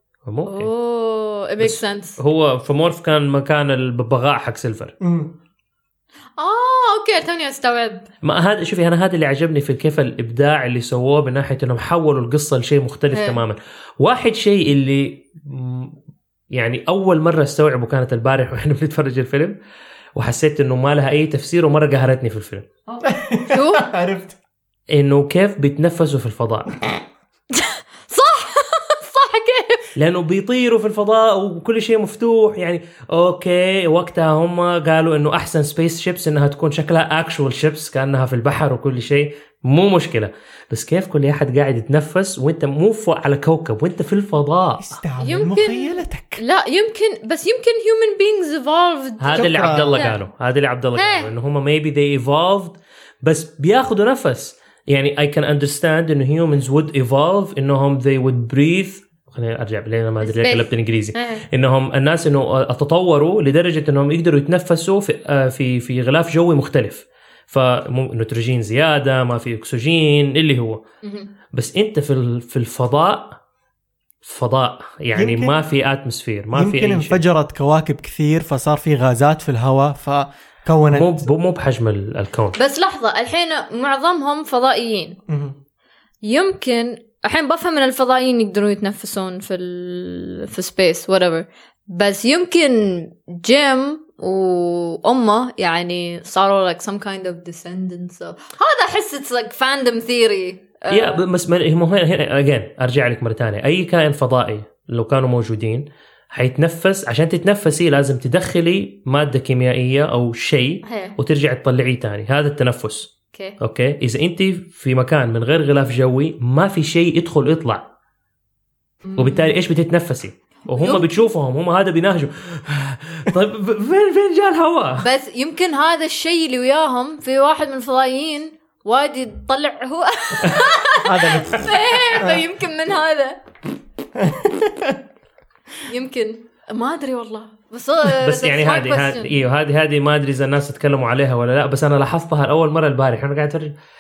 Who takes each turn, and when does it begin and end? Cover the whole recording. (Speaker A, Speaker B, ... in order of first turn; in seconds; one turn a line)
Speaker A: 0.2-0.7
Speaker B: 0.5-2.2
Speaker A: 1.6-4.9
Speaker C: 5.0-5.3
Speaker B: 6.4-8.1
Speaker A: 8.2-15.9
Speaker B: 13.1-13.4
Speaker A: 16.5-19.6
Speaker A: 20.1-22.6
Speaker B: 22.9-23.9
Speaker C: 23.0-24.4
Speaker A: 24.9-26.7
Speaker B: 27.5-29.9
Speaker A: 29.9-45.0
Speaker C: 44.8-46.4
Speaker B: 45.2-50.2
Speaker A: 49.2-70.8
Speaker C: 49.3-50.1
Speaker B: 51.0-51.3
Speaker B: 60.2-61.4
Speaker B: 71.0-71.3
Speaker A: 71.5-73.4
Speaker A: 74.2-77.2
Speaker C: 75.1-75.5
Speaker C: 76.5-81.2
Speaker A: 80.9-82.6
Speaker B: 82.6-85.2
Speaker C: 85.3-85.5
Speaker B: 86.2-101.2
Speaker A: 100.9-117.8
Speaker B: 110.8-111.2
Speaker B: 119.0-119.5
Speaker A: 119.2-125.1
Speaker B: 120.7-121.1
Speaker B: 125.0-133.4
Speaker C: 131.0-132.4
Speaker C: 134.2-135.0
Speaker B: 135.8-139.3
Speaker A: 138.0-143.8